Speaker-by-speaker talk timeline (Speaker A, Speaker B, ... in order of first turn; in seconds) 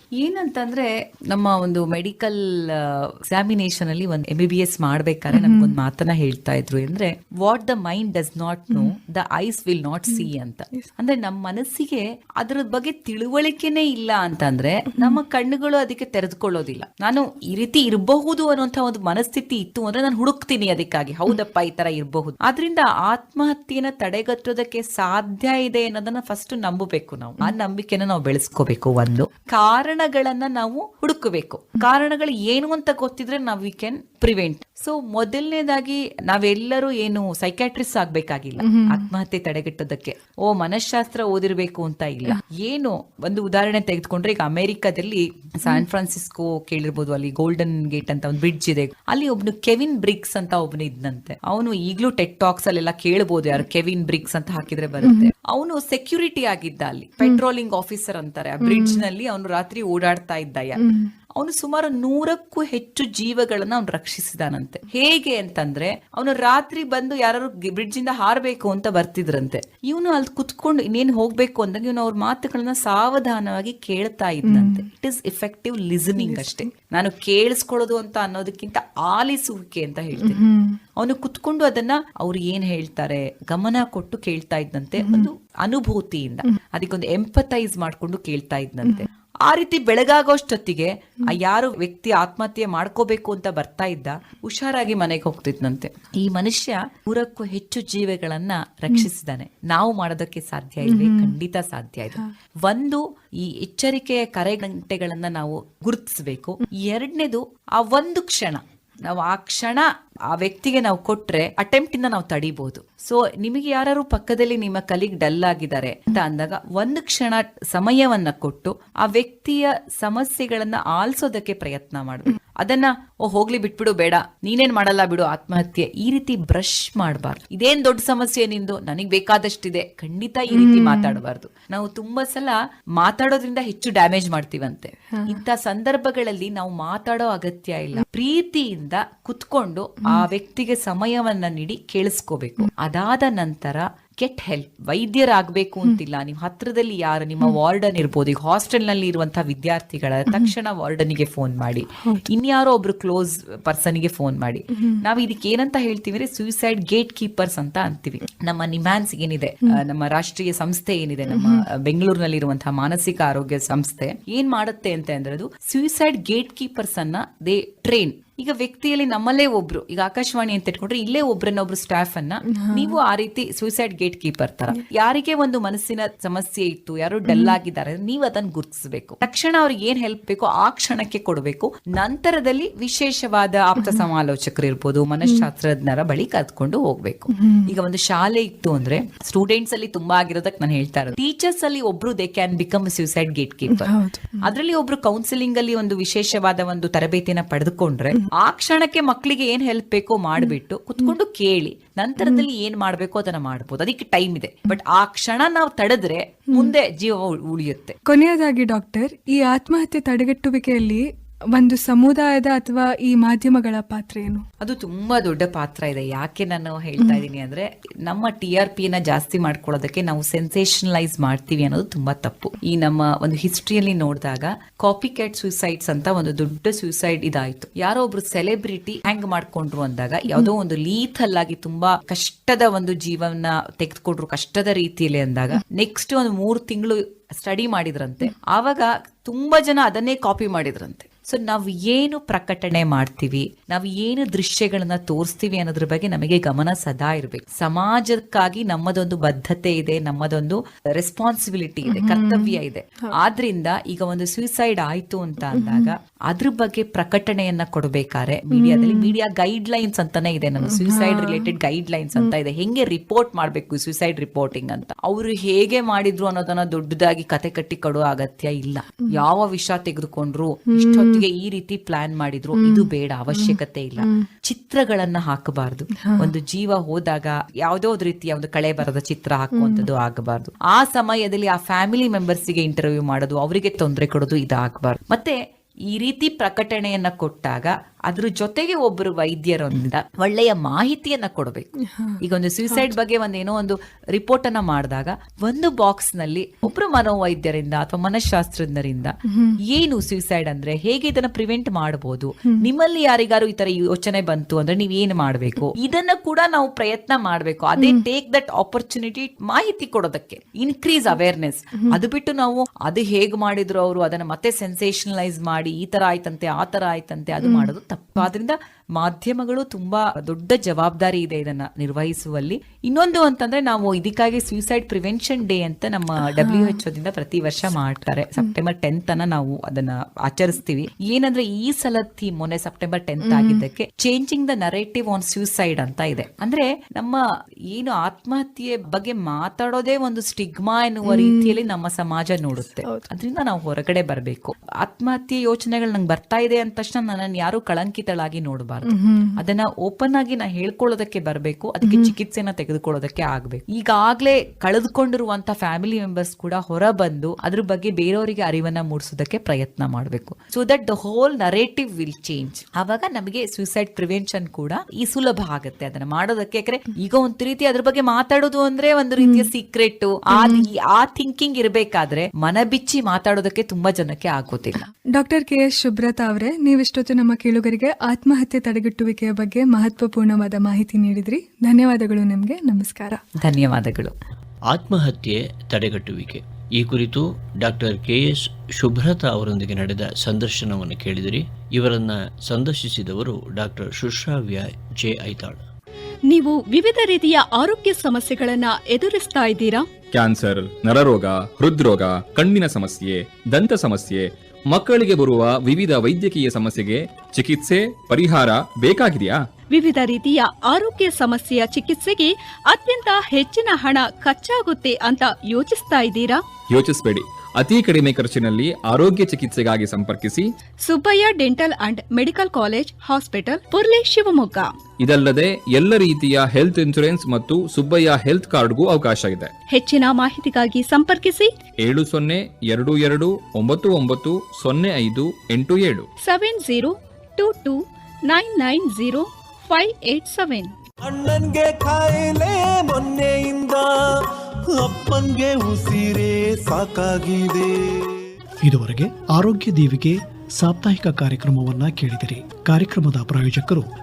Speaker A: 0.2-60.8, 61.4-80.4, 81.0-193.9, 194.4-208.0, 214.6-285.4, 285.9-291.7, 292.2-299.1, 299.7-337.2, 337.7-374.9, 383.4-384.1
Speaker B: 5.3-5.7, 10.1-10.9, 14.9-15.2, 38.6-39.0, 55.0-55.3, 58.6-59.0, 60.8-61.1, 74.5-74.8, 76.2-76.7, 80.2-80.8, 85.0-85.3, 100.8-101.3, 130.5-131.2, 135.1-135.4, 150.3-150.5, 154.7-155.0, 161.3-161.6, 172.5-173.0, 177.3-177.6, 187.3-187.7, 193.7-194.5, 200.4-201.1, 208.1-211.0, 211.6-214.4, 251.9-253.1, 255.5-255.9, 258.5-259.1, 260.6-261.5, 270.7-271.2, 272.6-274.2, 276.0-276.3, 279.5-279.9, 291.8-292.9, 299.3-299.6, 307.8-308.0, 317.4-317.7, 326.2-326.8, 333.2-333.6, 341.1-341.6, 348.9-349.3, 351.8-352.1, 369.2-369.5, 370.4-370.6, 375.2-383.2
Speaker C: 384.7-395.6
Speaker D: 396.3-399.9, 409.7-416.4, 420.8-424.7, 429.7-431.5, 436.2-440.7
Speaker E: 400.1-409.4, 416.7-420.5, 425.0-429.5, 431.8-436.1
Speaker F: 441.1-443.9, 444.7-448.1
Speaker G: 448.6-453.9